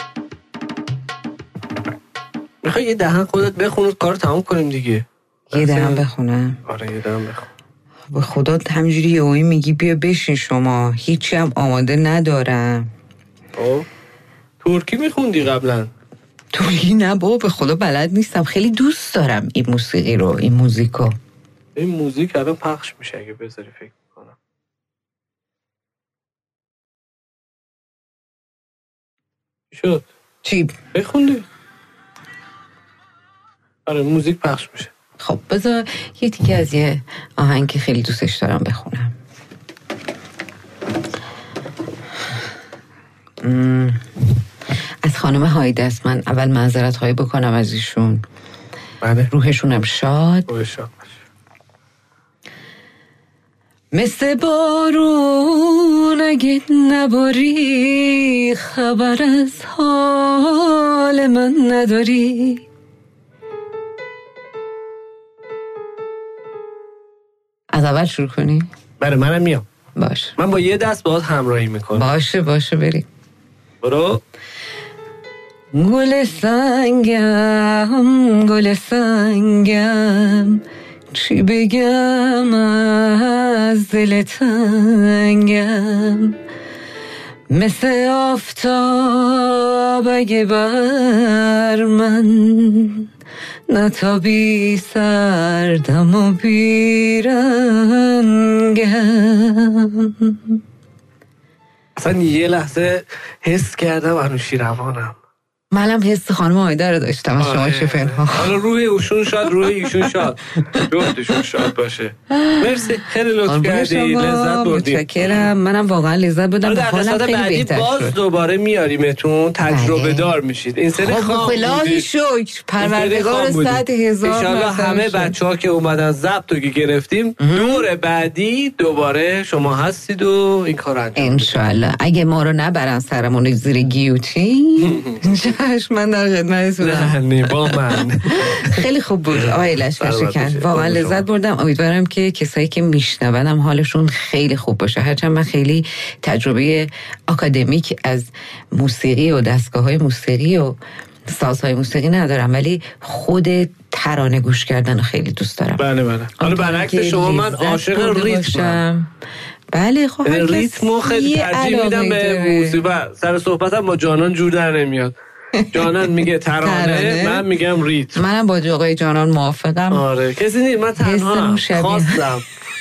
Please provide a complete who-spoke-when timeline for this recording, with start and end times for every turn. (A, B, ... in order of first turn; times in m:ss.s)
0:02.6-0:06.0 A
0:05.5-0:06.6 B
0:06.6-0:07.5 A
0:08.1-0:12.9 B
0:13.6-0:13.8 A
0:14.6-0:15.9 A
0:16.5-0:21.1 B
0:21.8-0:24.3 A
0:29.7-0:30.0 A
0:30.4-0:30.8 B
0:30.9-0:31.4 A
0:33.8-0:34.9 A
0:35.2-0:39.1 B
0:43.4-0:44.1 B
0:45.0-0:48.2 B
0:49.0-0:49.3 A
0:49.3-0:50.5 B
0:50.5-0:51.1 A
0:53.9-1:02.6 B
1:07.7-1:08.7 B
1:09.0-1:09.6 A
1:10.0-1:10.4 B
1:10.4-1:12.1 A
1:12.0-1:13.0 B
1:13.8-1:14.2 A
1:15.7-1:26.4 B
1:27.5-1:33.1 B
1:33.7-1:40.6 B
1:42.0-1:45.2 A
1:45.7-1:48.6 B
1:47.4-1:55.5 A
1:52.3-1:52.7 B
1:53.4-1:58.1 B
1:56.6-2:02.1 A
1:59.7-2:00.3 B
2:01.0-2:05.3 B
2:02.8-2:11.5 A
2:07.4-2:07.8 B
2:11.2-2:17.8 B
2:14.8-2:15.2 A
2:16.8-2:18.8 A
2:18.3-2:30.8 B
2:19.4-2:21.2 A
2:31.3-2:35.8 B
2:35.8-2:38.8 A
2:36.4-2:39.1 B
2:39.7-2:42.8 B
2:40.2-2:45.1 A
2:45.5-2:46.0 B
2:45.7-2:48.2 A
2:46.6-2:47.4 B
2:48.1-2:50.0 B
2:49.9-2:52.4 A
2:51.0-2:52.3 B